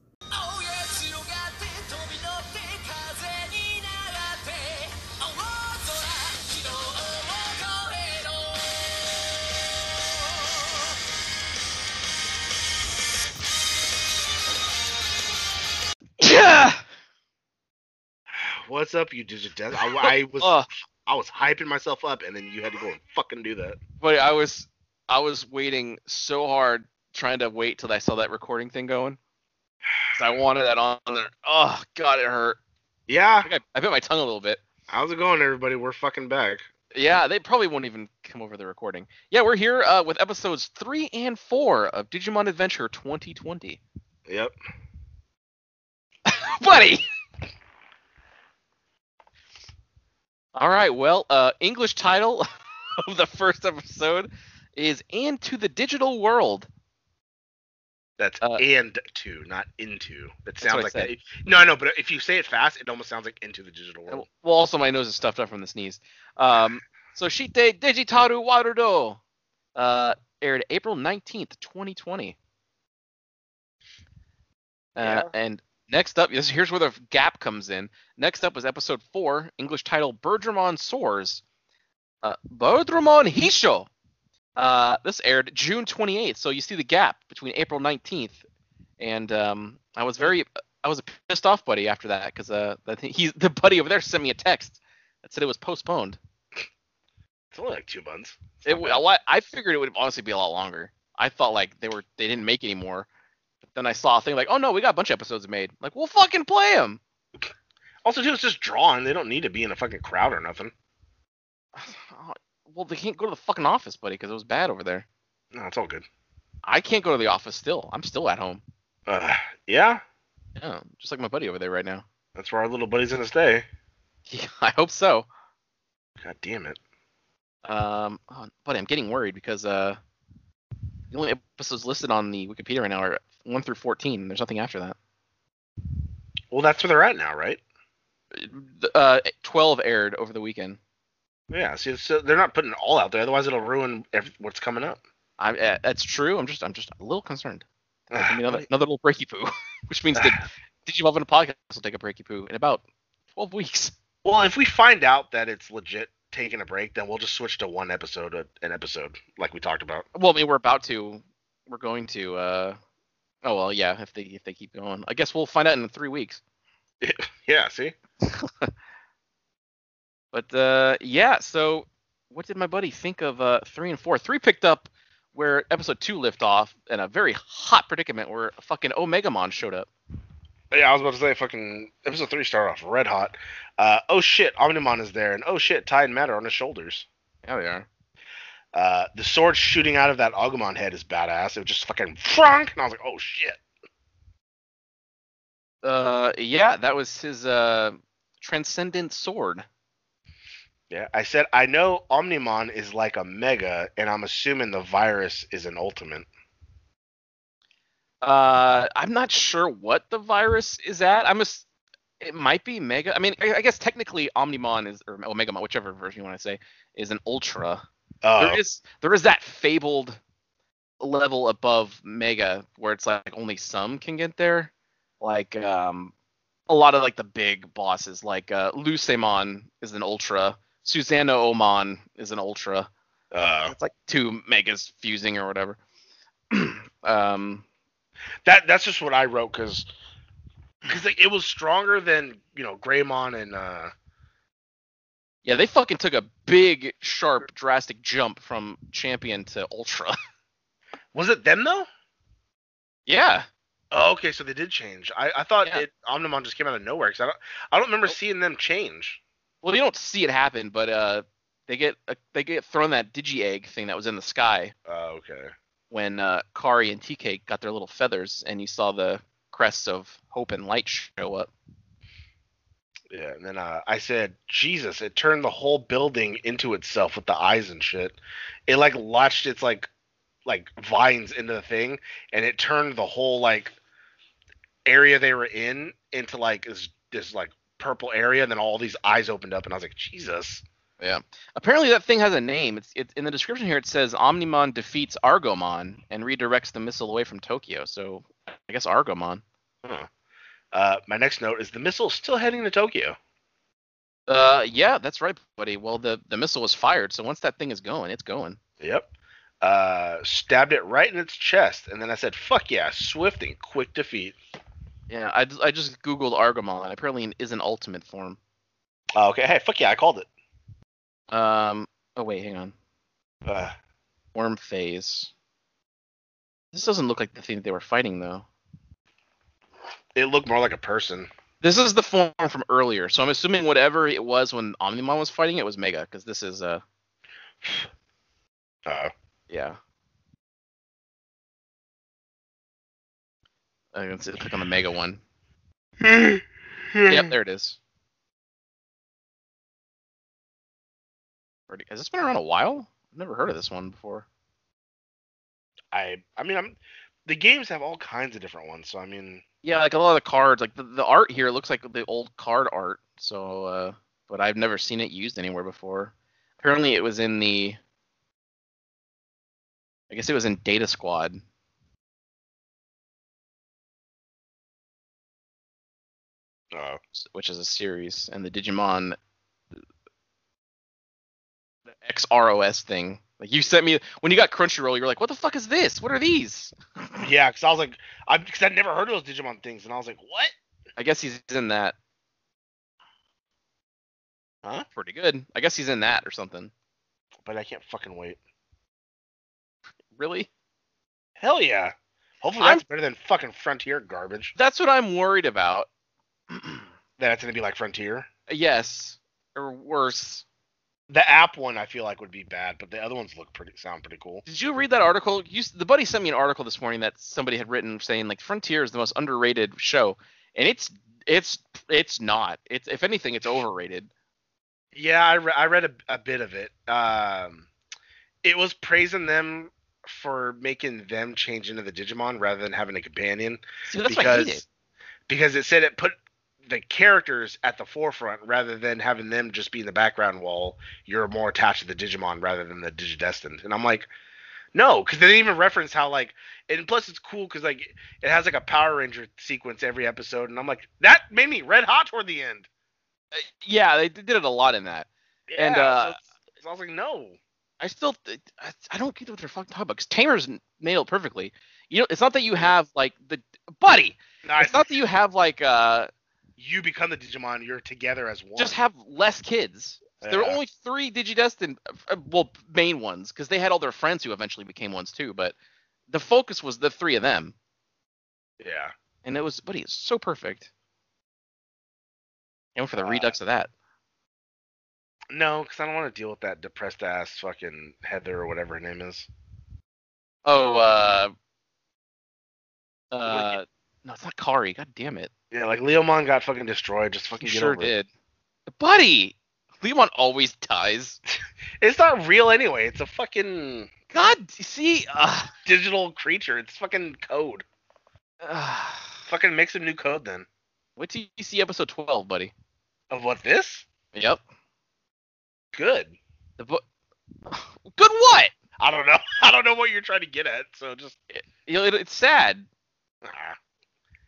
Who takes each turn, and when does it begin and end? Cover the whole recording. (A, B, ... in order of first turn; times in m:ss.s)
0:00.3-0:11.0 A
0:16.2-0:16.8 B
0:18.3-0:23.8 C
0:20.0-0:20.7 B
0:24.0-0:29.2 B
0:30.1-0:32.6 B
0:33.1-0:33.5 C
0:33.4-0:34.6 B
0:34.9-0:36.6 C
0:36.9-0:43.8 B
0:44.3-0:44.5 C
0:46.3-0:47.0 B
0:50.6-0:52.5 B
0:53.0-0:56.7 B
0:58.2-1:04.3 C
1:00.6-1:01.1 B
1:04.1-1:09.2 B
1:09.8-1:12.4 B
1:15.0-1:21.4 B
1:15.0-1:15.3 C
1:22.2-1:23.9 B
1:24.6-1:28.4 B
1:29.0-1:36.2 B
1:37.5-1:39.0 C
1:38.6-1:43.1 B
1:43.7-1:47.0 B
1:48.0-1:50.7 C
1:51.8-1:55.1 B
1:55.5-1:56.1 C
1:56.6-1:58.6 B
1:59.1-2:00.0 C
2:00.6-2:02.0 B
2:02.4-2:03.7 C
2:04.3-2:05.3 B
2:06.2-2:06.8 C
2:07.6-2:10.0 B
2:11.1-2:15.0 B
2:16.5-2:17.6 C
2:18.3-2:20.8 B
2:21.5-2:25.0 C
2:25.4-2:27.6 B
2:28.1-2:28.6 C
2:28.2-2:32.8 B
2:30.2-2:30.4 C
2:33.4-2:33.9 B
2:34.2-2:40.1 C
2:40.1-2:42.8 B
2:43.4-2:46.4 B
2:47.0-2:48.0 C
2:48.2-2:48.7 B
2:50.3-2:59.9 B
3:00.7-3:07.1 C
3:07.4-3:07.9 B
3:08.7-3:13.6 C
3:15.8-3:19.6 B
3:20.9-3:26.3 C
3:28.2-3:31.6 B
3:32.2-3:37.8 B
3:38.2-3:38.6 C
3:38.4-3:40.2 B
3:41.0-3:46.1 B
3:46.7-3:52.9 B
3:53.3-3:53.7 C
3:53.7-3:55.8 B
3:56.5-3:57.6 B
3:58.4-3:59.9 C
4:00.9-4:03.9 C
4:05.4-4:10.2 B
4:11.1-4:11.9 C
4:13.1-4:13.5 B
4:13.9-4:19.2 C
4:19.6-4:24.7 B
4:24.9-4:25.5 C
4:25.9-4:31.5 B
4:33.1-4:39.9 C
4:40.5-4:43.8 C
4:44.9-4:50.6 C
4:51.0-4:59.4 B
5:00.7-5:03.2 C
5:04.3-5:08.6 B
5:08.8-5:09.1 C
5:09.6-5:14.4 C
5:15.1-5:18.4 B
5:19.2-5:20.3 C
5:21.3-5:22.8 B
5:23.4-5:23.8 C
5:24.4-5:25.3 B
5:26.7-5:28.5 B
5:30.2-5:31.3 C
5:31.6-5:36.8 B
5:38.9-5:39.1 C
5:39.5-5:39.8 B
5:43.9-5:45.2 B
5:46.0-5:47.3 C
5:47.1-5:47.8 B
5:51.7-5:54.3 B
5:55.9-5:59.4 C
5:59.6-6:07.8 B
6:10.1-6:11.4 B
6:16.7-6:17.0 C
6:17.2-6:19.2 B
6:22.0-6:27.3 B
6:27.2-6:30.5 C
6:31.0-6:32.0 B
6:35.0-6:36.7 B
6:37.4-6:38.4 C
6:40.1-6:40.5 B
6:41.4-6:44.6 C
6:44.6-6:45.9 B
6:46.5-6:46.9 B
6:47.2-6:48.3 C
6:48.5-6:50.4 B
6:51.1-6:54.4 C
6:54.5-7:04.1 B
7:04.9-7:07.7 C
7:08.4-7:14.7 C
7:13.9-7:14.6 B
7:15.3-7:24.1 C
7:24.7-7:32.7 C
7:33.3-7:36.2 B
7:35.5-7:37.4 C
7:37.8-7:46.1 B
7:44.4-7:44.9 C
7:46.6-7:48.8 C
7:48.6-7:55.6 B
7:50.2-7:50.6 C
7:56.1-7:57.6 B
7:58.6-7:58.9 C
7:59.2-8:00.7 B
8:02.8-8:03.7 B
8:03.0-8:03.4 C
8:05.3-8:09.3 C
8:10.5-8:11.3 B
8:13.1-8:15.3 B
8:13.3-8:13.6 C
8:15.5-8:17.9 C
8:17.4-8:18.1 B
8:18.7-8:21.2 B
8:21.8-8:23.9 C
8:24.1-8:25.5 B
8:25.7-8:27.6 C
8:28.4-8:29.2 B
8:29.3-8:30.5 C
8:31.0-8:32.5 B
8:33.1-8:33.9 C
8:34.1-8:34.4 B
8:35.7-8:36.2 C
8:36.6-8:36.8 B
8:37.5-8:38.5 B
8:38.8-8:41.2 C
8:41.3-8:42.7 B
8:43.2-8:43.6 C